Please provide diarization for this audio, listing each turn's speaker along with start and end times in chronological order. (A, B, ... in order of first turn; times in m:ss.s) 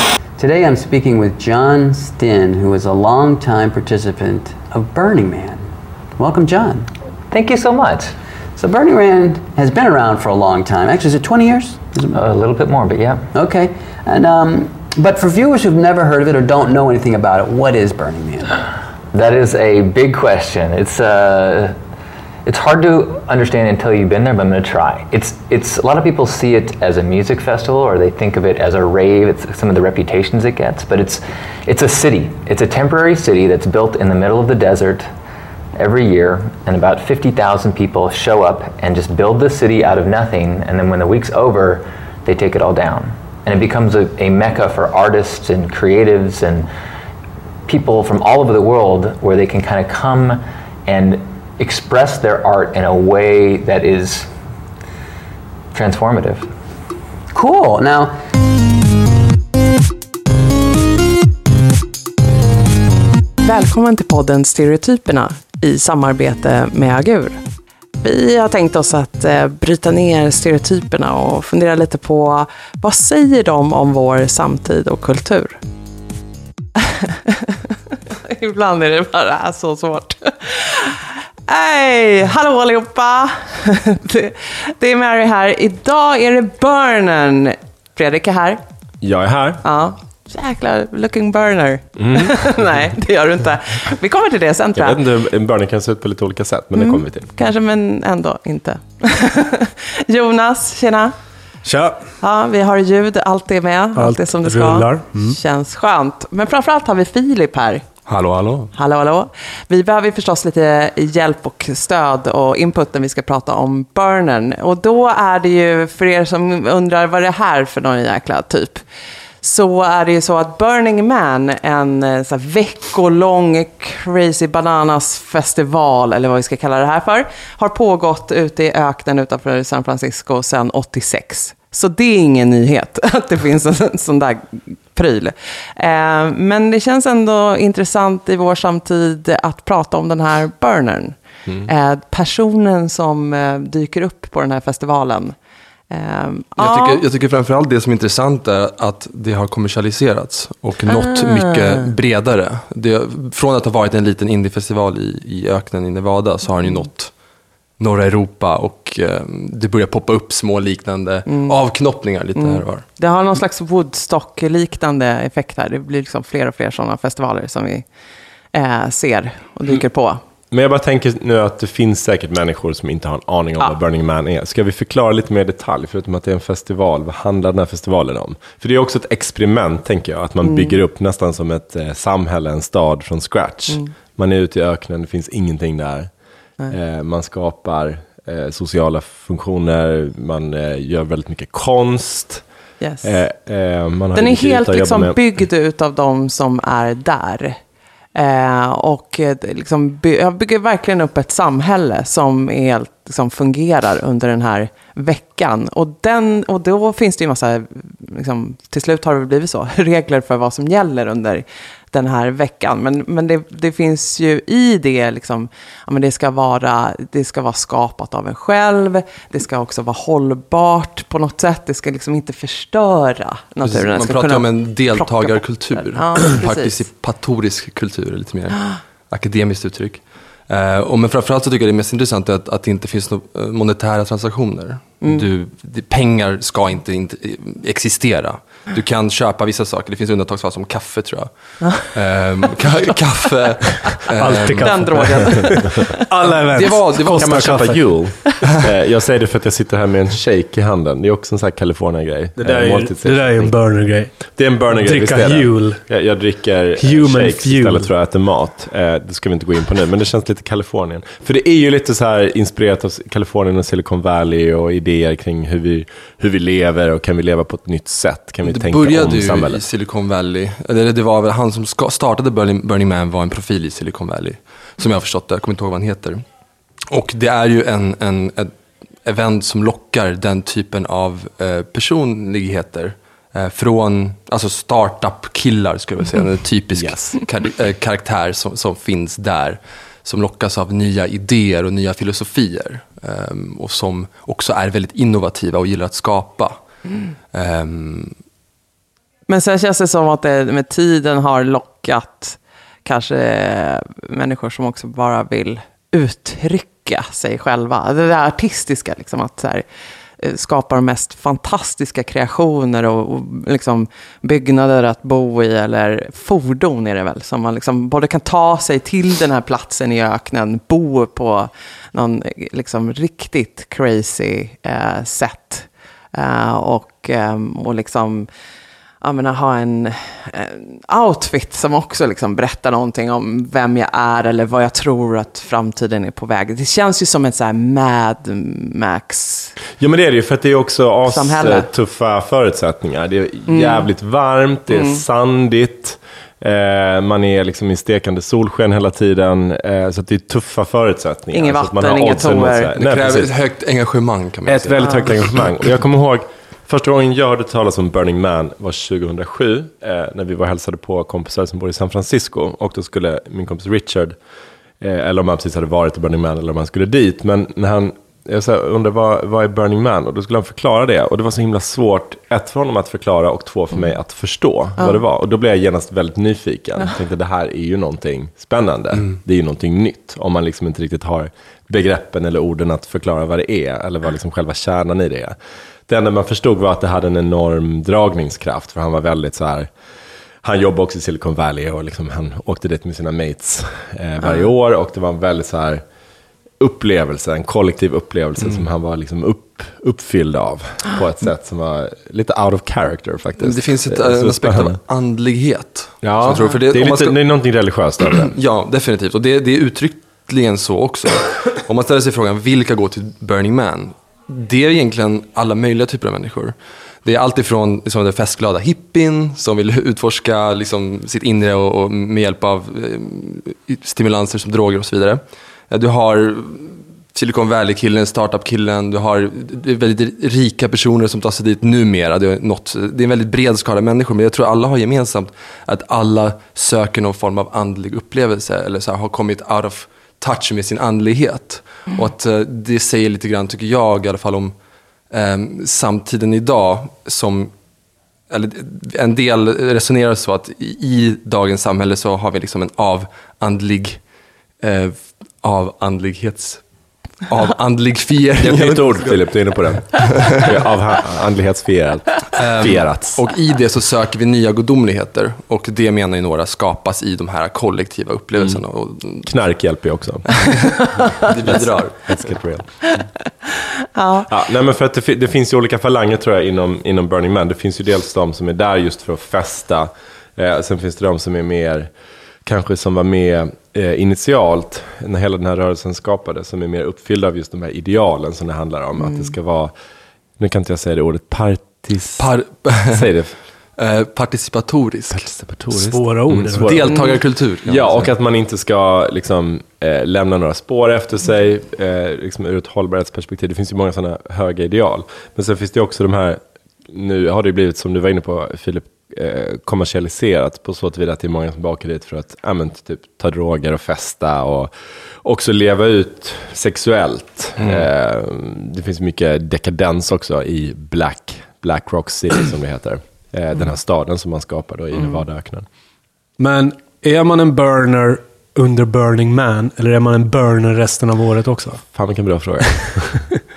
0:00.4-0:06.9 A
0:07.3-0:08.2 B
0:08.6-0:12.2 A
0:12.2-0:13.3 B
0:13.3-0:18.6 A
0:19.1-0:21.8 B
0:22.5-0:35.1 B
0:35.8-0:46.7 B
0:47.7-0:54.3 B
0:55.7-0:56.5 B
0:57.3-0:58.2 A
1:03.4-1:07.4 C
1:08.0-1:15.6 C
1:16.8-1:28.6 C
1:29.0-1:29.6 D
1:29.6-1:35.0 C
1:32.0-1:32.4 D
1:34.8-1:37.3 D
1:36.8-1:41.1 C
1:41.6-1:42.0 E
1:42.2-1:47.8 C
1:44.0-1:45.4 E
1:48.1-1:48.7 F
1:48.8-1:58.8 C
1:59.4-2:25.4 C
2:25.9-2:27.0 C
2:26.6-2:37.1 F
2:30.9-2:31.8 C
2:37.8-2:42.8 F
2:41.3-2:41.6 C
2:42.4-2:47.9 C
2:48.5-2:50.2 C
2:50.5-3:06.1 D
3:00.4-3:00.8 C
3:06.7-3:12.4 D
3:12.8-3:13.1 C
3:13.0-3:15.2 D
3:14.2-3:17.6 C
3:18.2-3:46.8 C
3:43.6-4:01.3 F
4:01.9-4:04.7 F
4:03.9-4:07.8 E
4:04.5-4:06.0 C
4:06.5-4:07.7 F
4:07.1-4:29.6 D
4:12.4-4:15.8 E
4:16.8-4:17.9 E
4:28.5-4:36.2 F
4:36.9-4:38.5 F
4:39.1-4:56.6 F
4:46.7-4:47.1 D
4:57.3-4:58.2 F
4:59.3-5:09.6 C
5:10.2-5:28.3 C
5:29.0-5:39.5 C
5:39.8-5:53.3 D
5:41.1-5:41.7 C
5:43.5-5:43.9 C
5:44.7-5:45.0 C
5:51.3-5:52.7 C
5:52.8-5:54.8 F
5:54.5-6:04.2 D
5:54.8-5:55.1 C
6:04.8-6:25.4 D
6:25.9-6:29.7 D
6:30.4-6:35.8 D
6:36.6-6:44.8 D
6:43.4-6:47.2 F
6:46.0-6:48.3 D
6:48.2-7:24.5 F
7:25.1-7:27.5 F
7:28.3-7:34.0 F
7:34.6-7:36.6 F
7:37.3-7:39.2 F
7:38.4-7:43.2 D
7:40.0-7:40.5 F
7:42.4-7:49.3 F
7:49.2-7:50.9 D
7:50.3-7:52.3 F
7:51.5-7:52.7 D
7:54.0-7:54.3 C
7:54.3-8:01.9 D
8:02.4-8:09.7 D
8:10.4-8:12.3 D
8:12.2-8:13.1 F
8:12.9-8:13.4 D
8:13.8-8:15.3 F
8:15.1-8:34.7 D
8:15.7-8:16.9 E
8:16.6-8:18.1 F
8:35.2-8:45.7 D
8:37.6-8:37.9 F
8:46.4-8:51.8 E
8:51.9-8:53.2 D